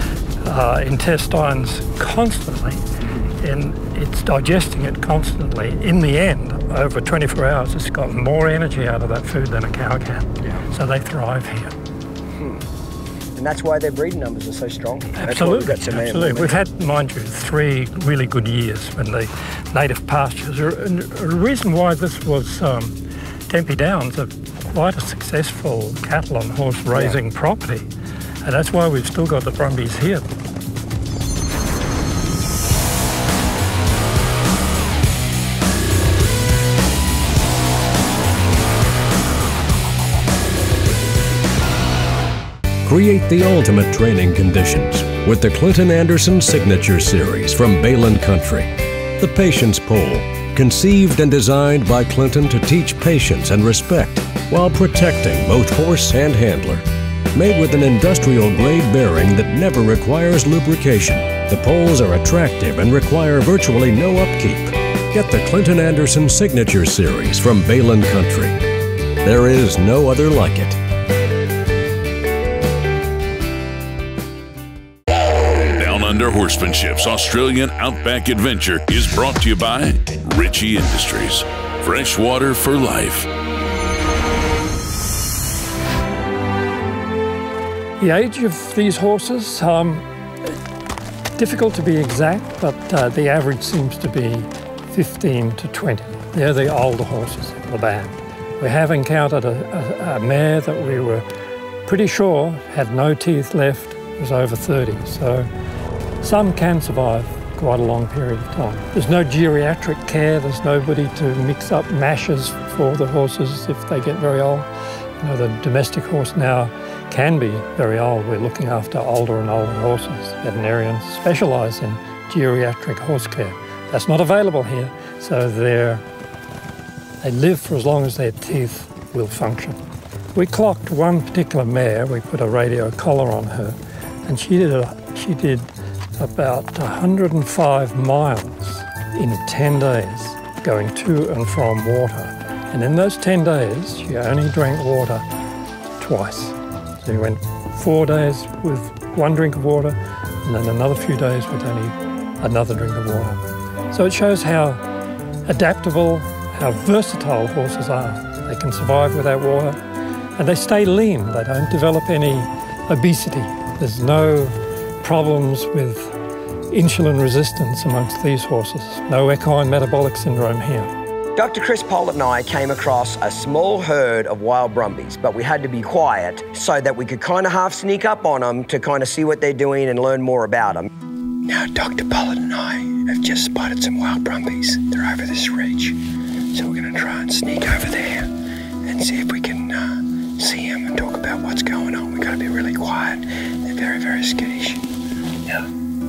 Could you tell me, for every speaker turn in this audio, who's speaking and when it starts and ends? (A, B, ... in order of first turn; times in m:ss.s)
0:00.4-0:02.8 A
0:03.0-0:03.3 B
0:03.4-0:11.7 A
0:12.4-0:12.6 B
0:13.4-0:16.6 B
0:15.2-0:23.0 A
0:23.5-0:27.9 A
0:28.4-0:30.3 A
0:42.8-1:08.6 C
1:09.2-1:10.8 C
1:15.7-1:23.3 D
1:28.0-1:30.5 A
1:31.4-1:41.2 A
1:41.8-1:45.5 A
1:46.2-1:54.7 A
1:55.2-2:06.0 A
2:07.2-2:09.8 A
2:10.3-2:15.7 A
2:16.2-2:25.2 A
2:26.0-2:34.8 A
2:35.4-2:39.8 A
2:40.4-2:46.1 A
2:46.7-2:50.9 A
2:51.4-3:00.9 B
3:01.5-3:05.9 B
3:06.5-3:08.2 B
3:08.8-3:09.8 B
3:10.4-3:14.8 B